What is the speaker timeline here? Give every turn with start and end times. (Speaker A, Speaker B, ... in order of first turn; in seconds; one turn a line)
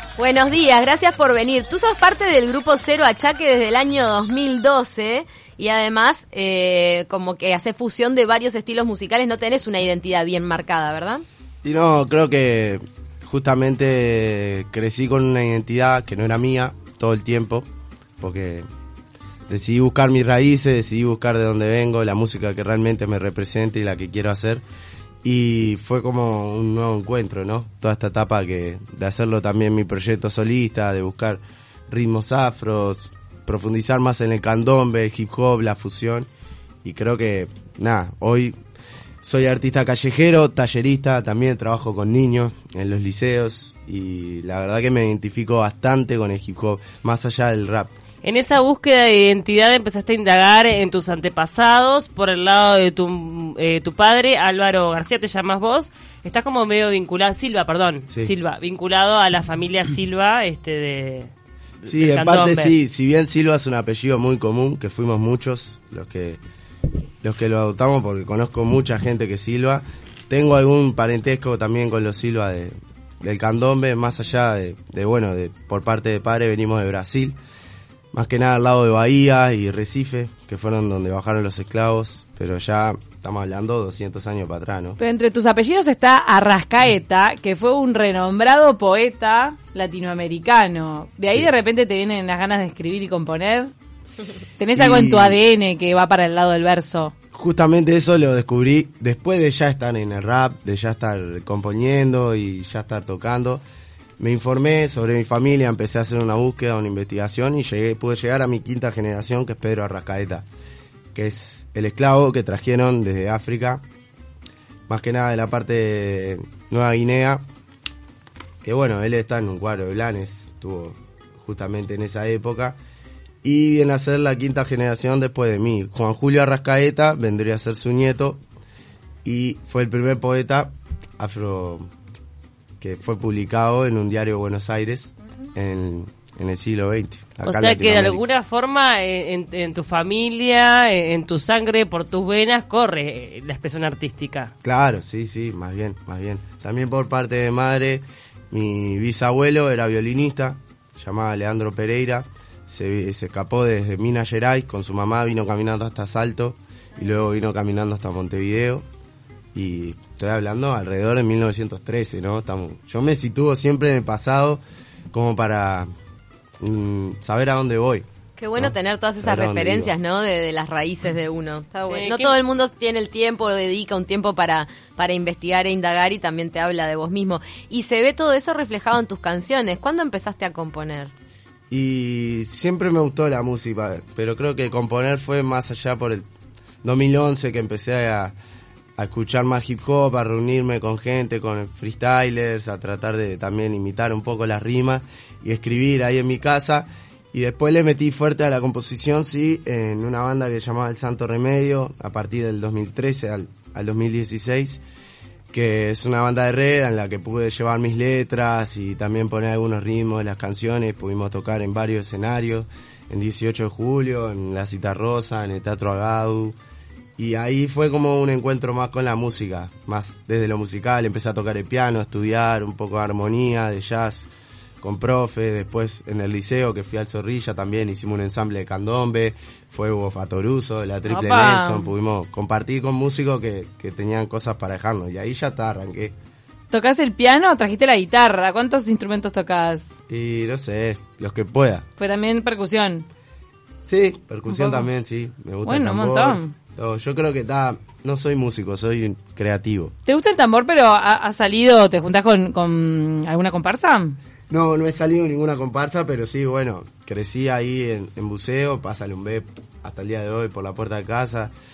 Speaker A: 0.2-11.2
Speaker B: 11.6-17.7
Speaker B: 18.2-18.6
Speaker B: 19.5-24.6
Speaker B: 25.2-36.3
Speaker B: 36.8-38.6
Speaker B: 39.2-47.9
Speaker C: 48.2-61.3
Speaker B: 58.1-58.3
Speaker C: 61.8-62.7
Speaker B: 61.9-66.4
Speaker B: 67.2-77.4
Speaker B: 78.1-85.0
Speaker D: 85.0-93.7
Speaker D: 94.6-97.1
Speaker B: 94.7-95.4
Speaker B: 97.3-103.6
Speaker B: 104.2-110.5
Speaker B: 111.1-113.8
Speaker B: 114.9-117.4
Speaker B: 118.6-122.8
Speaker B: 123.4-128.4
Speaker B: 129.2-131.9
Speaker B: 132.8-138.2
Speaker C: 137.4-144.5
Speaker B: 144.6-158.8
Speaker B: 159.5-164.6
Speaker B: 165.1-165.9
Speaker B: 166.6-168.0
Speaker A: 168.4-181.1
Speaker B: 168.6-169.9
Speaker C: 171.8-172.3
Speaker B: 181.7-186.2
Speaker B: 186.8-188.3
Speaker B: 189.0-204.8
Speaker B: 205.5-216.6
Speaker B: 217.2-224.3
Speaker B: 224.8-236.1
Speaker D: 231.1-231.9
Speaker D: 236.7-239.9
Speaker B: 240.1-241.8
Speaker D: 242.0-243.1
Speaker B: 243.8-249.9
Speaker D: 244.5-244.9
Speaker D: 245.6-246.5
Speaker D: 250.1-254.2
Speaker B: 254.5-261.5